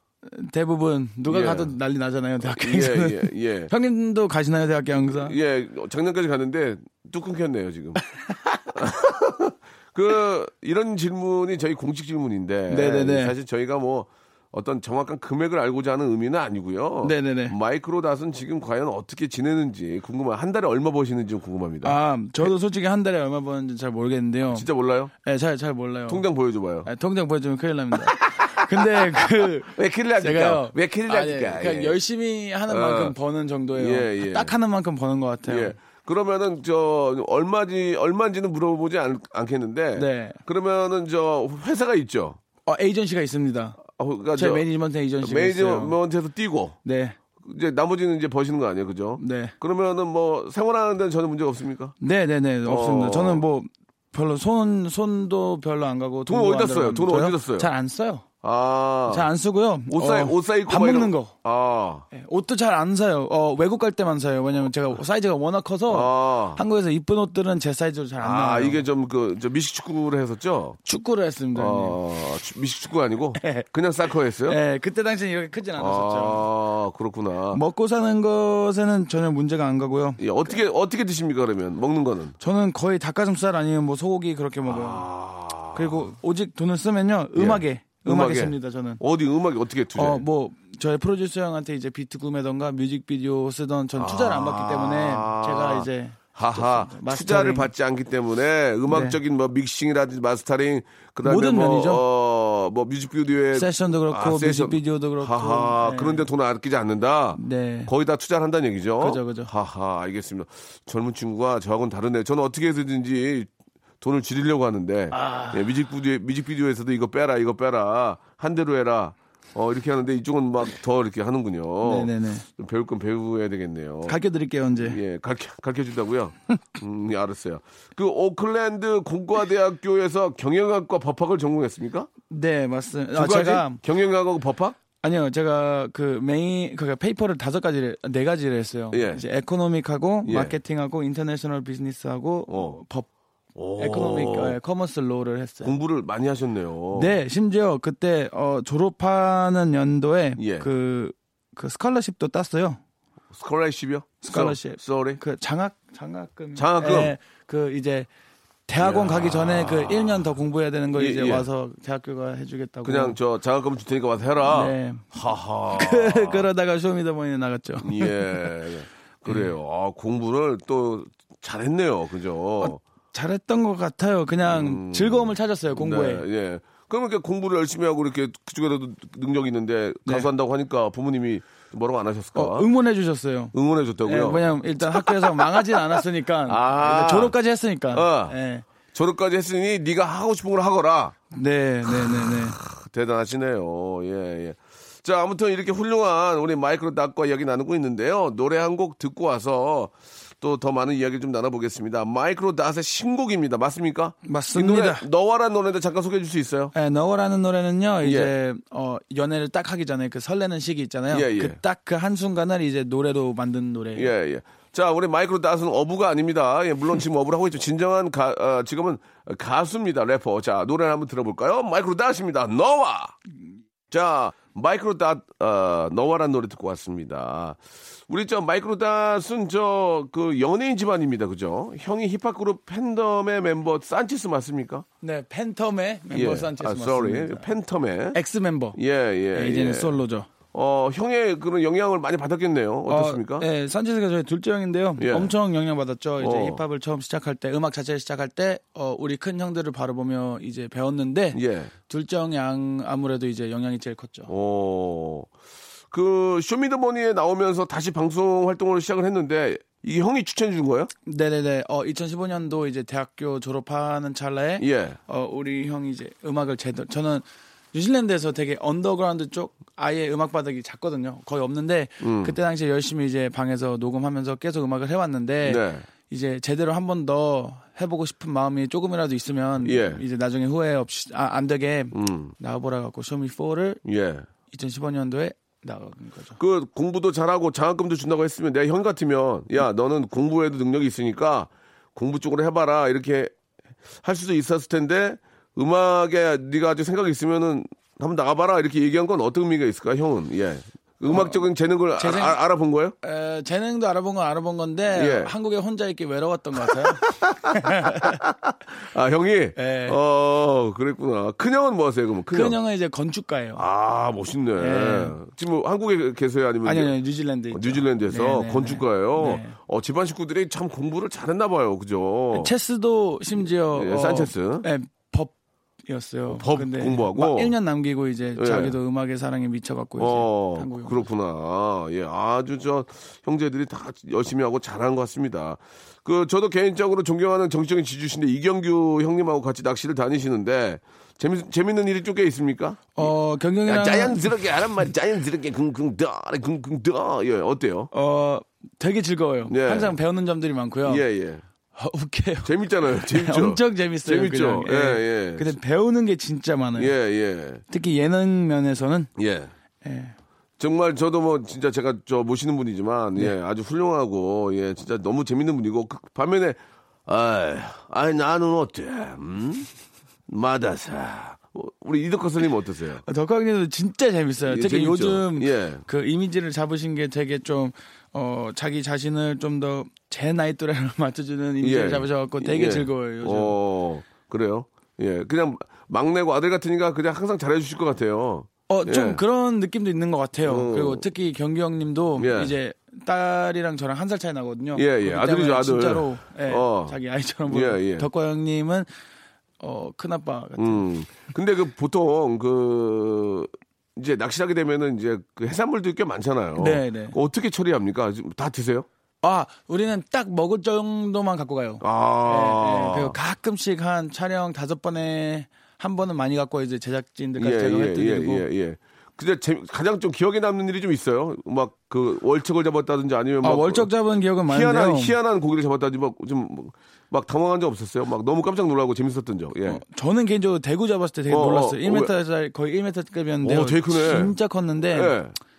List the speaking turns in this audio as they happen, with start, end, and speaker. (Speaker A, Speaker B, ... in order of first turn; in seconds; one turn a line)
Speaker A: 0.2-5.3
Speaker B: 1.3-1.7
Speaker B: 2.4-3.7
Speaker B: 5.1-8.0
Speaker A: 8.1-8.6
Speaker B: 8.7-22.0
Speaker A: 12.7-13.3
Speaker A: 17.0-17.6
Speaker A: 21.8-24.7
Speaker B: 24.5-25.1
Speaker A: 25.2-26.2
Speaker B: 26.1-26.9
Speaker A: 26.8-35.8
Speaker B: 28.1-32.0
Speaker B: 32.7-33.1
Speaker B: 33.7-34.5
Speaker B: 35.5-42.4
Speaker A: 39.9-40.4
Speaker A: 42.6-43.8
Speaker B: 43.8-44.6
Speaker A: 44.4-46.0
Speaker B: 45.2-46.8
Speaker A: 46.8-47.2
Speaker B: 47.4-51.9
Speaker A: 49.2-49.5
Speaker A: 52.0-58.2
Speaker B: 52.6-53.4
Speaker B: 56.3-57.7
Speaker B: 58.4-59.3
Speaker A: 59.1-61.3
Speaker B: 59.9-62.0
Speaker A: 62.1-68.8
Speaker B: 65.9-66.6
Speaker B: 68.2-70.8
Speaker A: 70.8-72.0
Speaker B: 71.5-74.6
Speaker A: 73.4-73.7
Speaker A: 74.5-76.5
Speaker B: 75.8-77.6
Speaker A: 77.5-80.5
Speaker B: 80.2-82.3
Speaker A: 82.4-85.1
Speaker B: 84.7-86.1
Speaker A: 85.7-89.0
Speaker B: 87.3-90.2
Speaker A: 89.9-97.7
Speaker B: 94.0-113.5
Speaker A: 98.9-99.2
Speaker A: 101.2-102.0
Speaker A: 103.5-106.3
Speaker A: 107.3-107.9
Speaker A: 109.0-109.5
Speaker B: 114.0-124.2
Speaker A: 115.1-115.8
Speaker A: 121.8-122.5
Speaker A: 124.1-125.0
Speaker B: 124.8-132.1
Speaker A: 132.3-133.8
Speaker B: 133.1-134.8
Speaker A: 135.0-143.1
Speaker B: 138.9-139.2
Speaker B: 140.2-140.5
Speaker B: 142.5-142.8
Speaker B: 143.5-144.6
Speaker A: 143.8-145.7
Speaker B: 145.6-147.1
Speaker A: 146.9-152.8
Speaker B: 150.4-150.7
Speaker B: 153.3-155.2
Speaker A: 154.2-158.1
Speaker B: 156.6-157.1
Speaker A: 158.7-163.2
Speaker B: 158.8-160.2
Speaker B: 160.9-161.5
Speaker B: 162.8-166.5
Speaker A: 164.4-165.1
Speaker A: 165.7-168.5
Speaker B: 167.8-172.8
Speaker A: 172.6-176.2
Speaker B: 174.4-182.7
Speaker A: 182.3-188.7
Speaker B: 183.5-187.3
Speaker B: 187.9-188.3
Speaker B: 188.9-191.2
Speaker A: 191.3-192.6
Speaker B: 191.8-206.7
Speaker A: 204.2-205.1
Speaker A: 206.7-214.1
Speaker B: 208.0-208.3
Speaker B: 211.1-211.6
Speaker B: 213.9-223.1
Speaker B: 223.9-234.8
Speaker A: 235.0-237.5
Speaker B: 236.1-238.2
Speaker A: 238.1-238.8
Speaker B: 238.8-240.0
Speaker A: 239.3-240.3
Speaker B: 240.5-243.4
Speaker A: 242.9-254.3
Speaker B: 245.0-245.3
Speaker B: 246.2-246.6
Speaker B: 251.3-251.7
Speaker B: 254.3-255.3
Speaker B: 255.9-260.9
Speaker A: 261.1-283.8
Speaker B: 264.6-265.0
Speaker B: 272.0-272.4
Speaker B: 275.4-275.9
Speaker B: 279.6-280.0
Speaker B: 281.9-282.3
Speaker B: 283.8-284.3
Speaker A: 284.5-286.4
Speaker B: 286.4-293.3
Speaker B: 294.0-302.9
Speaker A: 301.1-301.4
Speaker A: 302.0-302.4
Speaker A: 303.0-308.2
Speaker B: 304.9-305.3
Speaker B: 306.6-312.6
Speaker A: 309.6-310.0
Speaker A: 312.3-313.6
Speaker B: 313.6-316.9
Speaker A: 314.6-315.2
Speaker A: 316.6-319.6
Speaker B: 317.5-322.5
Speaker A: 322.3-325.3
Speaker B: 323.7-324.6
Speaker A: 325.9-331.0
Speaker B: 326.3-327.5
Speaker B: 328.4-328.8
Speaker B: 330.0-343.1
Speaker A: 342.9-344.3
Speaker B: 343.6-347.9
Speaker A: 347.9-351.0
Speaker B: 349.5-349.9
Speaker B: 350.8-351.4
Speaker A: 351.7-356.9
Speaker B: 352.4-355.6
Speaker B: 356.8-357.6
Speaker A: 357.7-359.1
Speaker B: 359.2-359.5
Speaker A: 359.8-360.1
Speaker B: 360.6-369.7
Speaker B: 370.3-373.0
Speaker A: 373.0-383.6
Speaker B: 374.5-375.8
Speaker B: 381.6-389.2
Speaker A: 388.7-398.9
Speaker B: 390.4-391.1
Speaker B: 392.2-392.5
Speaker B: 394.7-396.9
Speaker B: 397.5-398.1
Speaker A: 399.6-400.9
Speaker B: 400.6-408.9
Speaker A: 406.6-407.1
Speaker A: 409.2-418.4
Speaker B: 411.8-413.1
Speaker B: 417.4-423.9
Speaker A: 423.4-425.1
Speaker B: 424.5-429.8
Speaker A: 429.6-435.2
Speaker B: 431.3-432.1
Speaker B: 433.4-434.3
Speaker B: 434.9-435.4